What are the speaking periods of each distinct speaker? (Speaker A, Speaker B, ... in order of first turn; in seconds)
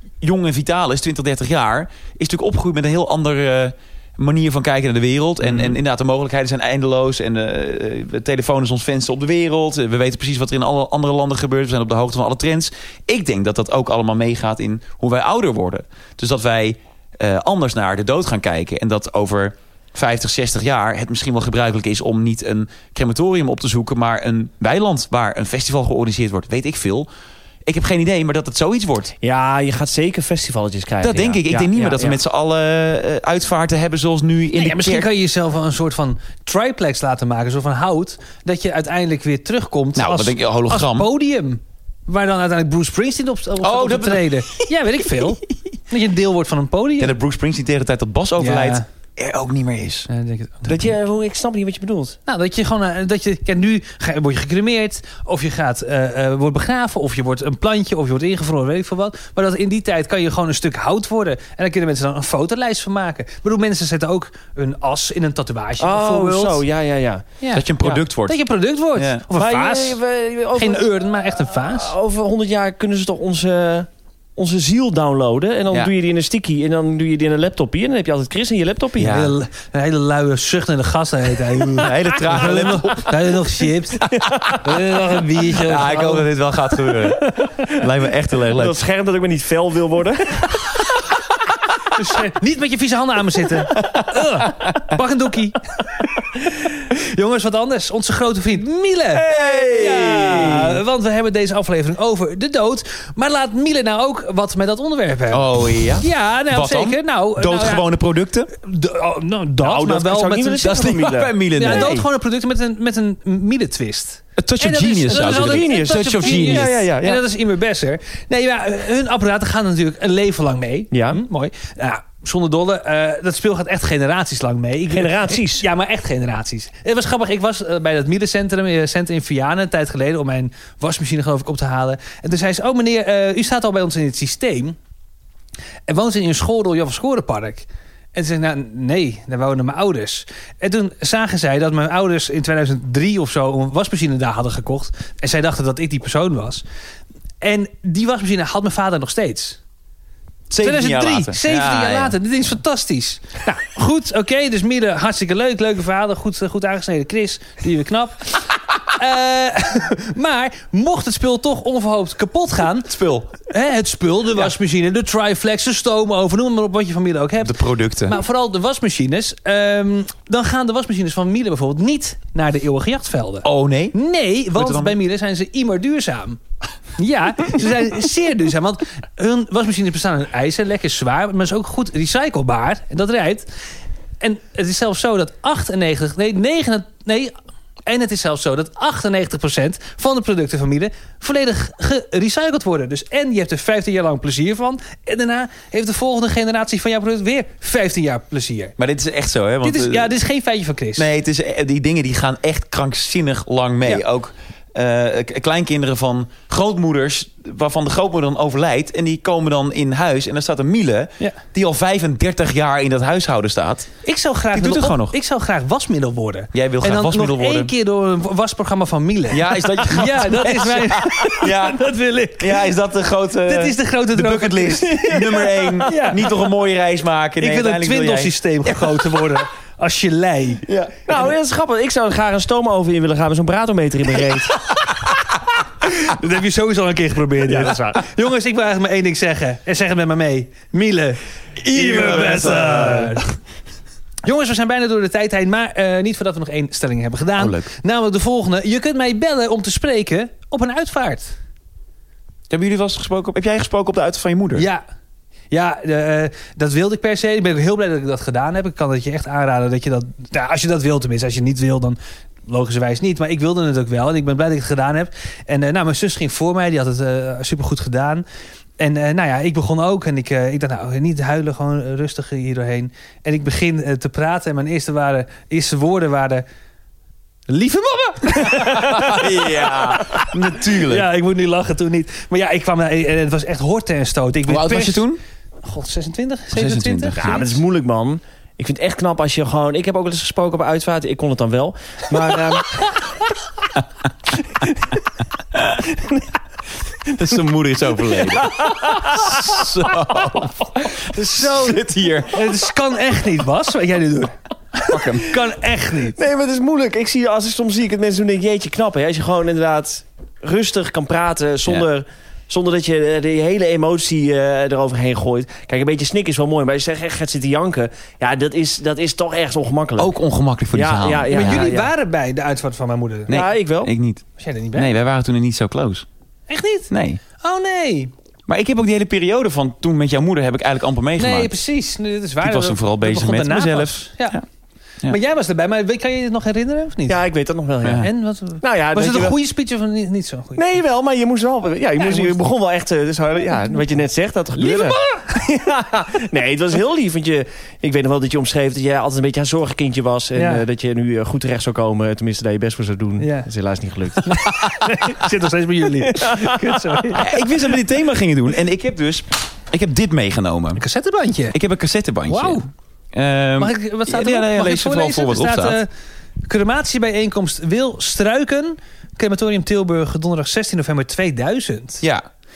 Speaker A: 0.2-27.1, 27.6-29.1, 31.0-35.1, 40.0-41.1, 43.6-44.7, 47.0-50.1, 67.5-68.4, 68.9-69.2, 79.0-79.3, 81.8-83.2, 84.1-84.6, 85.5-88.7, 93.8-94.1, 99.3-100.5, 105.3-108.5, 110.6-112.0, 114.4-116.7, 150.5-152.1, 162.8-163.3, 167.4-168.2, 173.4-174.0, 174.5-174.9, 198.8-200.1, 201.0-214.0, 214.5-215.2, 216.5-217.7, 219.3-221.8, 222.4-229.3, 241.9-242.6, 247.4-247.7, 252.5-254.7, 278.5-281.1, 284.5-285.2, 286.5-287.4, 297.1-302.6, 304.9-305.3, 320.0-321.7, 323.3-326.1, 326.9-327.2, 328.5-331.5, 332.4-334.4, 337.8-338.1, 357.1-360.8, 361.5-362.6, 363.1-365.8
Speaker B: 29.2-32.2, 50.7-52.2, 65.8-67.2, 69.3-70.9, 71.5-79.2, 88.5-90.5, 99.2-100.6, 109.6-112.0, 115.1-117.2, 120.9-121.2, 124.9-125.6, 230.7-234.6, 237.4-238.0, 241.8-243.1, 287.1-292.4, 298.4-298.7, 306.1-320.1, 320.7-321.9, 323.3-323.9, 337.1-338.1, 338.6-339.4, 340.5-354.3, 356.1-357.0
Speaker C: 34.5-47.1, 48.4-48.8, 50.1-50.7, 52.3-66.6, 67.4-70.0, 70.5-71.9, 79.1-86.3, 86.8-87.5, 91.9-105.4, 106.0-107.8, 108.6-110.8, 111.5-134.8, 135.9-146.6, 147.4-149.6, 150.6-162.9, 163.4-176.4, 177.0-183.5, 184.2-187.3, 187.9-198.7, 199.6-201.0, 214.0-222.7, 223.4-226.3, 227.4-230.6, 235.9-243.2, 244.2-251.3, 254.5-254.8, 255.5-268.2, 268.8-276.4, 277.5-285.0, 285.6-287.5, 292.1-292.9, 299.0-299.6, 301.2-301.8, 302.3-306.2, 321.3-323.3, 324.4-324.9, 326.5-328.1, 331.2-334.4, 335.1-337.2, 338.0-340.6, 342.0-342.4, 344.6-345.3, 350.3-350.6, 353.2-353.5, 354.2-357.3, 360.8-361.6, 362.3-362.6, 363.6-365.9, 366.5-372.0